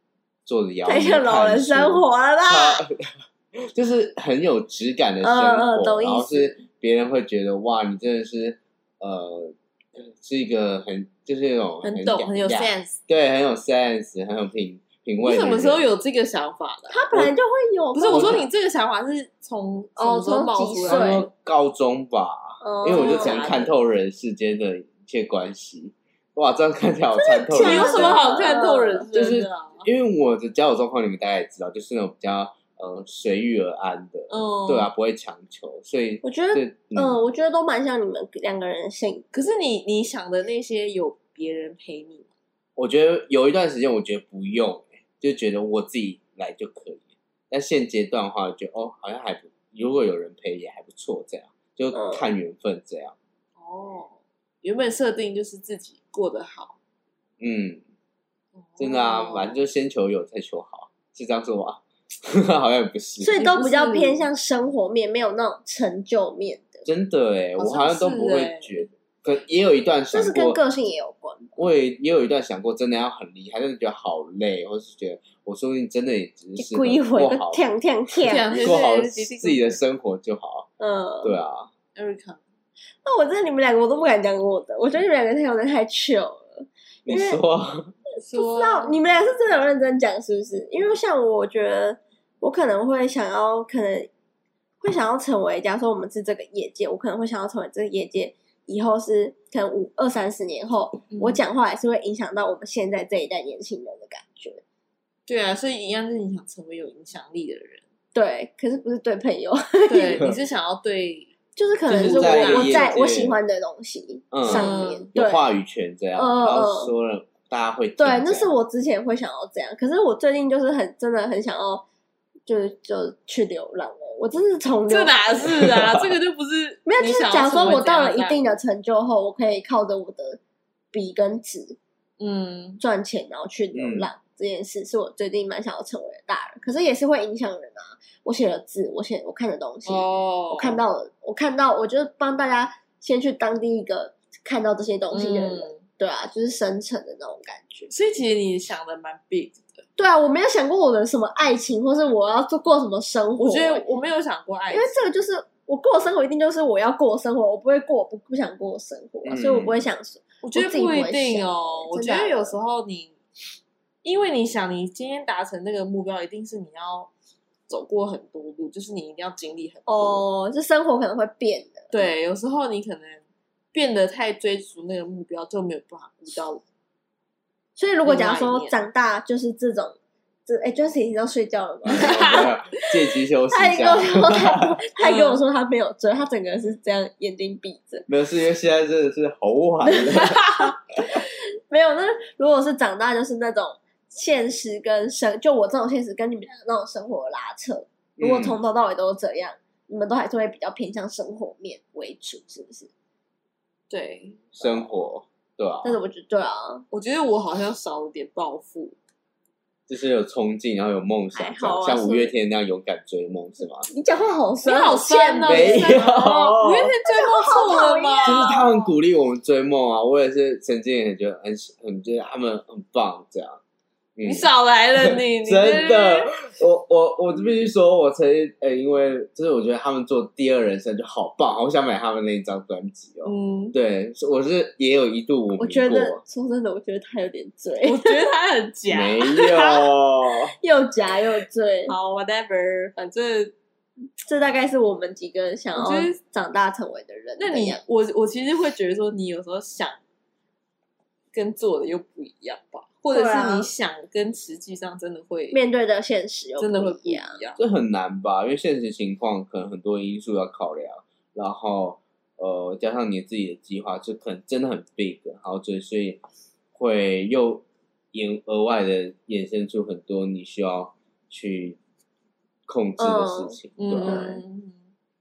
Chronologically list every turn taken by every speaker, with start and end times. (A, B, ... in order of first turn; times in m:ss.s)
0:00.4-0:15.9 A
0:00.8-0:02.8 B
0:05.2-0:06.6 B
0:11.8-0:13.0 C
0:15.2-0:17.1 C
0:16.9-0:18.4 B
0:17.9-0:21.2 C
0:18.1-0:18.4 A
0:20.0-0:21.2 B
0:20.8-0:28.2 A
0:22.6-0:23.4 B
0:22.8-0:23.7 C
0:27.2-0:29.1 B
0:27.6-0:29.9 C
0:29.1-0:37.2 A
0:34.3-0:34.9 C
0:36.2-0:39.2 B
0:39.3-0:42.3 C
0:42.8-0:53.1 A
0:51.9-0:52.2 B
0:53.6-0:56.8 C
0:57.4-0:57.8 A
0:58.6-0:59.6 C
0:58.8-1:03.3 A
1:03.2-1:06.8 B
1:03.3-1:04.2 C
1:06.8-1:10.6 A
1:07.6-1:08.8 C
1:10.1-1:11.5 B
1:11.6-1:17.6 A
1:16.6-1:18.8 B
1:18.2-1:19.8 C
1:18.5-1:20.7 A
1:20.8-1:21.4 B
1:21.2-1:21.7 A
1:21.9-1:22.4 C
1:23.0-1:27.4 B
1:27.0-1:27.9 A
1:28.2-1:29.0 C
1:28.3-1:34.1 B
1:34.8-1:44.6 B
1:41.1-1:41.4 C
1:45.3-1:47.8 C
1:48.1-1:50.3 B
1:49.9-1:51.3 C
1:51.6-1:55.4 B
1:51.9-1:53.4 A
1:51.9-1:53.0 C
1:54.3-1:58.5 A
1:54.4-1:55.1 C
1:56.1-1:56.9 B
1:58.0-2:01.8 B
2:02.5-2:05.2 B
2:04.9-2:08.6 C
2:05.4-2:06.1 A
2:06.8-2:10.4 B
2:10.9-2:11.8 B
2:12.2-2:12.8 C
2:12.8-2:27.9 B
2:13.7-2:14.1 A
2:19.8-2:20.8 C
2:25.1-2:25.8 C
2:27.9-2:29.8 C
2:30.0-2:33.8 B
2:33.4-2:35.0 C
2:34.7-2:42.6 B
2:39.2-2:39.8 A
2:40.4-2:43.1 C
2:44.0-2:47.1 C
2:47.7-2:50.2 C
2:49.9-2:51.9 B
2:51.9-2:53.2 C
2:53.7-2:56.6 C
2:57.8-3:00.0 B
2:58.0-2:58.8 C
3:00.5-3:02.4 B
3:01.8-3:04.7 A
3:01.9-3:02.5 C
3:03.5-3:08.1 B
3:05.0-3:05.4 C
3:08.1-3:10.6 A
3:10.6-3:22.9 B
3:18.2-3:18.6 A
3:23.9-3:24.9 C
3:24.6-3:26.0 A
3:25.8-3:26.8 B
3:26.9-3:29.0 C
3:29.9-3:33.9 A
3:31.3-3:32.3 C
3:33.9-3:36.5 B
3:34.6-3:38.7 C
3:35.4-3:36.9 A
3:37.0-3:38.8 B
3:38.2-3:43.6 A
3:44.2-3:56.2 A
3:44.2-3:46.4 C
3:53.2-3:53.8 C
3:55.6-3:58.2 B
3:57.8-3:59.9 C
3:58.9-4:00.5 A
4:00.6-4:01.9 B
4:01.9-4:03.5 C
4:04.2-4:07.8 B
4:05.8-4:06.2 C
4:07.4-4:10.0 C
4:11.3-4:15.6 C
4:13.1-4:13.7 B
4:15.5-4:17.4 B
4:16.6-4:17.6 C
4:17.6-4:26.2 A
4:26.7-4:31.8 A
4:32.7-4:34.3 A
4:33.0-4:34.4 B
4:33.8-4:34.8 C